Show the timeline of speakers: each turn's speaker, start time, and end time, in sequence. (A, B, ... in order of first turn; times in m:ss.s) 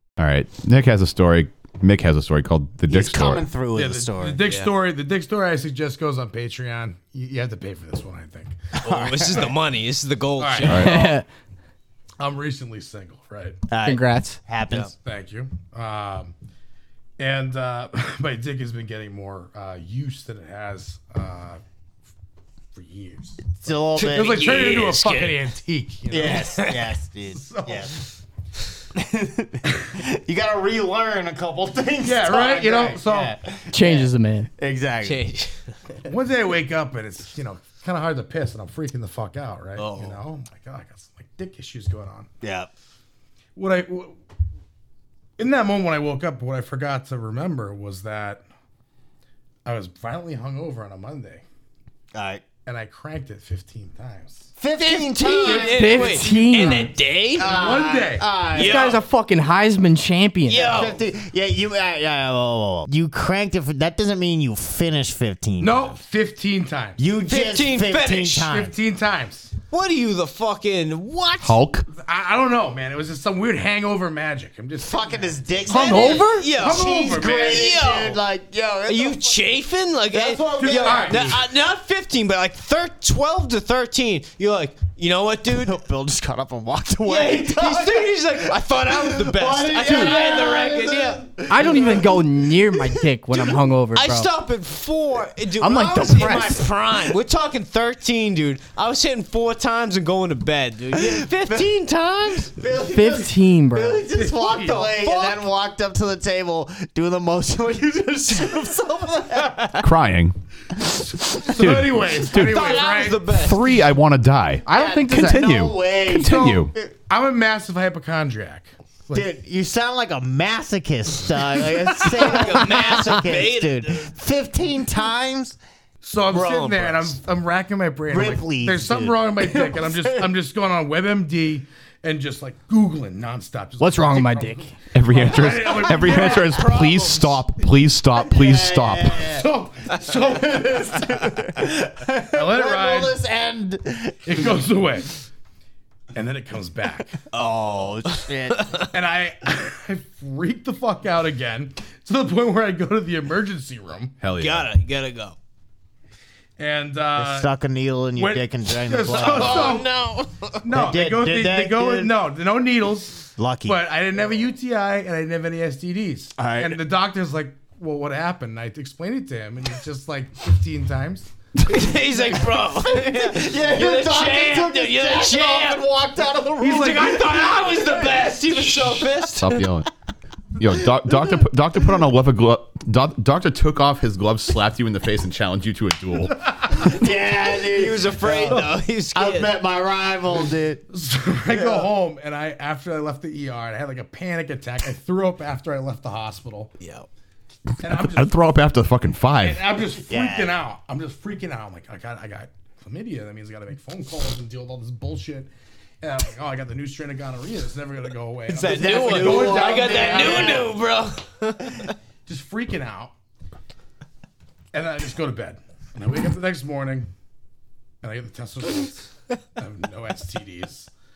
0:00.2-0:03.4 A
0:02.9-0:04.4 B
0:03.8-0:08.6 C
0:04.4-0:04.7 D
0:08.8-0:09.5 B
0:08.8-0:10.9 D
0:10.4-0:11.2 C
0:10.7-0:10.9 A
0:10.8-0:11.2 E
0:12.2-0:13.6 C
0:13.7-0:14.9 B
0:13.8-0:14.4 E
0:15.0-0:16.3 C
0:17.2-0:21.6 C
0:22.8-0:26.7 C
0:23.6-0:24.7 B
0:24.0-0:25.4 D
0:26.1-0:28.0 B
0:26.2-0:26.9 D
0:27.4-0:28.0 C
0:28.9-0:35.2 B
0:32.0-0:33.3 C
0:33.7-0:34.5 E
0:35.0-0:35.7 D
0:36.0-0:42.3 C
0:39.8-0:40.2 D
0:42.4-0:42.7 B
0:43.6-0:44.1 C
0:45.4-0:48.4 C
0:49.6-0:51.4 C
0:52.1-0:52.4 B
0:52.7-0:54.5 C
0:54.6-0:56.2 B
0:54.8-0:57.8 D
0:55.5-0:56.9 E
0:57.4-0:58.9 B
0:57.4-0:58.3 C
0:58.5-0:59.0 D
0:58.5-1:00.7 E
1:00.5-1:01.0 D
1:00.6-1:06.0 B
1:05.6-1:07.0 C
1:07.0-1:08.7 B
1:07.3-1:08.5 D
1:08.5-1:09.5 C
1:09.7-1:11.6 D
1:11.4-1:11.9 A
1:11.9-1:17.7 C
1:14.8-1:19.4 B
1:15.7-1:16.4 E
1:15.8-1:18.2 D
1:18.9-1:25.8 D
1:20.1-1:21.4 B
1:20.6-1:21.4 C
1:25.5-1:33.0 B
1:27.1-1:31.2 D
1:31.5-1:34.3 E
1:34.0-1:42.5 D
1:35.6-1:36.6 E
1:35.7-1:37.2 B
1:40.9-1:49.7 B
1:42.8-1:44.0 E
1:44.1-1:44.9 C
1:44.9-1:45.4 D
1:49.8-1:56.7 A
1:51.5-1:53.3 C
1:52.3-1:53.6 D
1:54.7-1:55.4 E
1:54.7-1:56.9 B
1:56.2-1:59.3 C
1:59.1-2:05.6 B
2:02.1-2:04.1 D
2:06.0-2:16.8 C
2:06.3-2:07.2 D
2:08.1-2:10.3 B
2:13.8-2:14.7 E
2:14.9-2:19.2 A
2:15.2-2:17.5 D
2:18.1-2:19.5 B
2:19.2-2:21.4 C
2:20.1-2:24.6 B
2:22.2-2:23.2 C
2:24.3-2:25.2 C
2:26.1-2:27.2 C
2:27.3-2:28.7 B
2:28.1-2:28.9 D
2:28.9-2:34.2 C
2:34.2-2:34.7 A
2:34.4-2:35.4 D
2:36.6-2:37.5 C
2:37.1-2:39.8 B
2:38.2-2:39.9 C
2:39.1-2:40.6 D
2:40.6-2:51.3 C
2:40.7-2:42.1 B
2:43.4-2:43.8 B
2:46.4-2:46.8 B
2:51.6-2:55.9 D
2:52.8-2:57.2 B
2:56.6-2:59.6 D
2:56.6-2:58.2 C
2:59.3-2:59.9 A
3:00.6-3:06.5 A
3:06.7-3:10.8 B
3:07.6-3:09.6 D
3:10.9-3:16.7 C
3:11.5-3:11.9 B
3:16.8-3:17.1 D
3:17.8-3:18.4 C
3:18.0-3:19.6 A
3:19.4-3:25.5 C
3:20.0-3:20.6 B
3:26.0-3:30.7 C
3:28.5-3:31.9 D
3:28.6-3:30.7 B
3:32.3-3:33.1 C
3:34.7-3:37.1 C
3:38.0-3:39.0 C
3:39.6-3:40.9 C